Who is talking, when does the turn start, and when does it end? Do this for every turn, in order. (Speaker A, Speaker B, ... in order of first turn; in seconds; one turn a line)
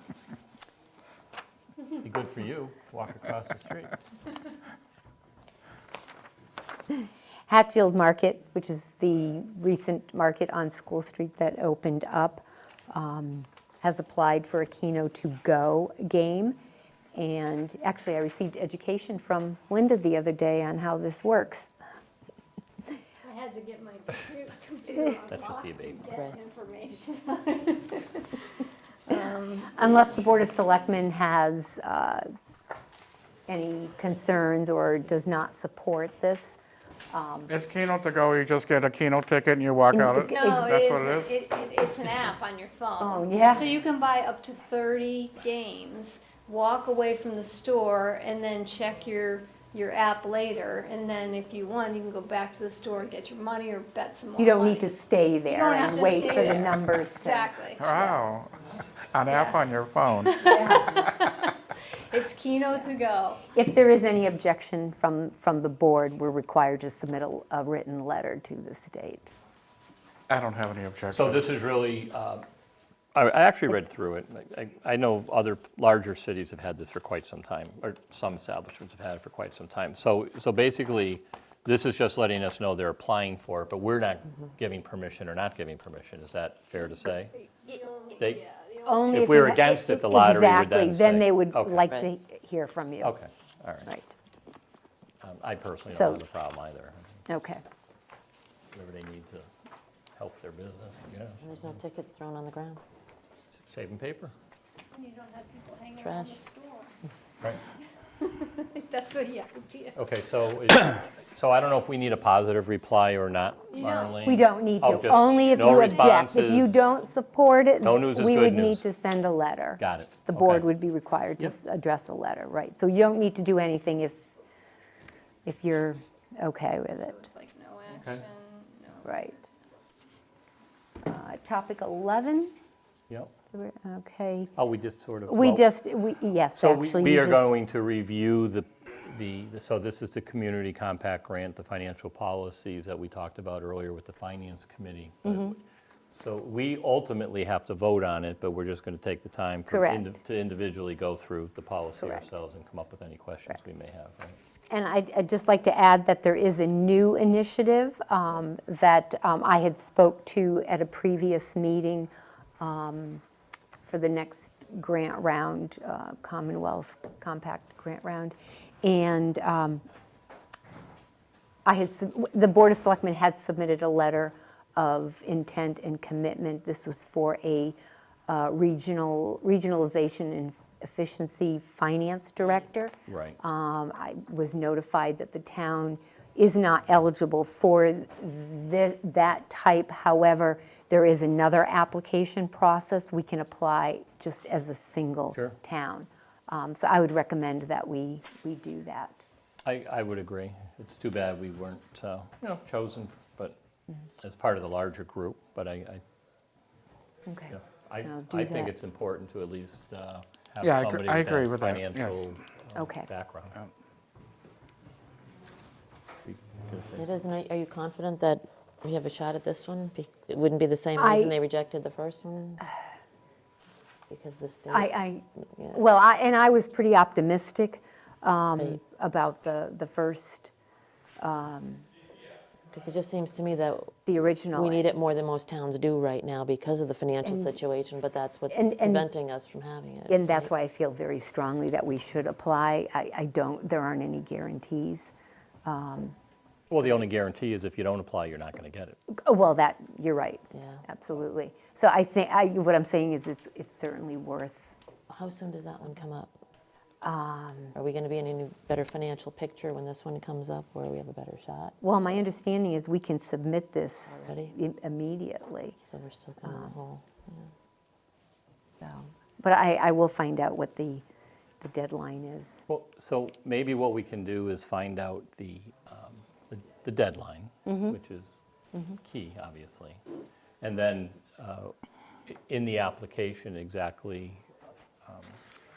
Speaker A: 2.0-4.0
Speaker B: 7.5-16.6
Speaker B: 17.1-21.7
Speaker C: 23.2-29.9
Speaker A: 25.3-26.2
Speaker B: 29.7-32.2
Speaker B: 33.5-36.6
Speaker B: 37.1-37.5
Speaker D: 37.5-41.4
Speaker B: 39.9-40.7
Speaker C: 40.3-54.9
Speaker B: 43.0-43.7
Speaker B: 54.4-58.2
Speaker C: 55.5-57.8
Speaker D: 57.8-58.6
Speaker D: 59.1-61.5
Speaker C: 59.3-59.6
Speaker C: 60.2-63.4
Speaker B: 63.5-69.3
Speaker D: 70.3-71.5
Speaker A: 71.1-72.5
Speaker A: 73.2-87.4
Speaker C: 87.6-89.2
Speaker A: 88.1-88.4
Speaker B: 88.8-93.2
Speaker A: 89.1-91.9
Speaker A: 93.0-93.9
Speaker B: 93.9-94.1
Speaker A: 95.2-97.1
Speaker B: 95.9-96.2
Speaker B: 97.3-97.6
Speaker A: 98.7-99.5
Speaker A: 100.2-101.5
Speaker E: 101.4-102.8
Speaker A: 103.5-104.3
Speaker C: 105.0-106.9
Speaker E: 106.0-106.4
Speaker C: 108.2-110.0
Speaker A: 110.0-116.8
Speaker C: 113.7-114.2
Speaker B: 114.2-124.2
Speaker A: 117.8-118.8
Speaker A: 119.8-120.7
Speaker B: 125.5-127.3
Speaker C: 127.0-129.2
Speaker A: 127.9-128.2
Speaker B: 129.0-129.4
Speaker B: 131.0-132.5
Speaker B: 133.5-134.5
Speaker A: 134.6-135.7
Speaker B: 135.3-137.6
Speaker A: 136.6-145.6
Speaker A: 146.1-154.4
Speaker B: 149.7-150.2
Speaker B: 152.0-152.3
Speaker B: 154.7-163.2
Speaker B: 163.8-169.8
Speaker B: 171.7-177.8
Speaker B: 178.3-199.2
Speaker A: 183.1-183.4
Speaker A: 199.7-203.6
Speaker A: 204.2-206.0
Speaker B: 207.3-208.7
Speaker A: 207.5-213.6
Speaker D: 210.6-212.2
Speaker B: 212.8-213.1
Speaker A: 216.2-217.2
Speaker E: 217.0-222.7
Speaker B: 221.0-221.3
Speaker E: 224.1-224.9
Speaker B: 224.7-230.5
Speaker B: 231.2-231.9
Speaker E: 232.7-233.9
Speaker B: 234.1-234.8
Speaker E: 234.5-240.5
Speaker B: 237.2-237.6
Speaker B: 238.5-239.1
Speaker B: 240.1-245.1
Speaker B: 245.7-246.2
Speaker A: 246.7-249.0
Speaker B: 249.1-254.8
Speaker E: 250.5-250.8
Speaker E: 255.1-256.4
Speaker B: 257.0-257.7
Speaker E: 257.8-261.8
Speaker B: 261.8-265.8
Speaker E: 264.1-264.6
Speaker E: 265.8-267.5
Speaker B: 266.4-266.8
Speaker B: 268.8-271.1
Speaker B: 271.6-272.6
Speaker A: 272.7-280.0
Speaker B: 277.7-277.9
Speaker A: 280.6-281.7
Speaker A: 282.3-284.4
Speaker A: 285.1-285.4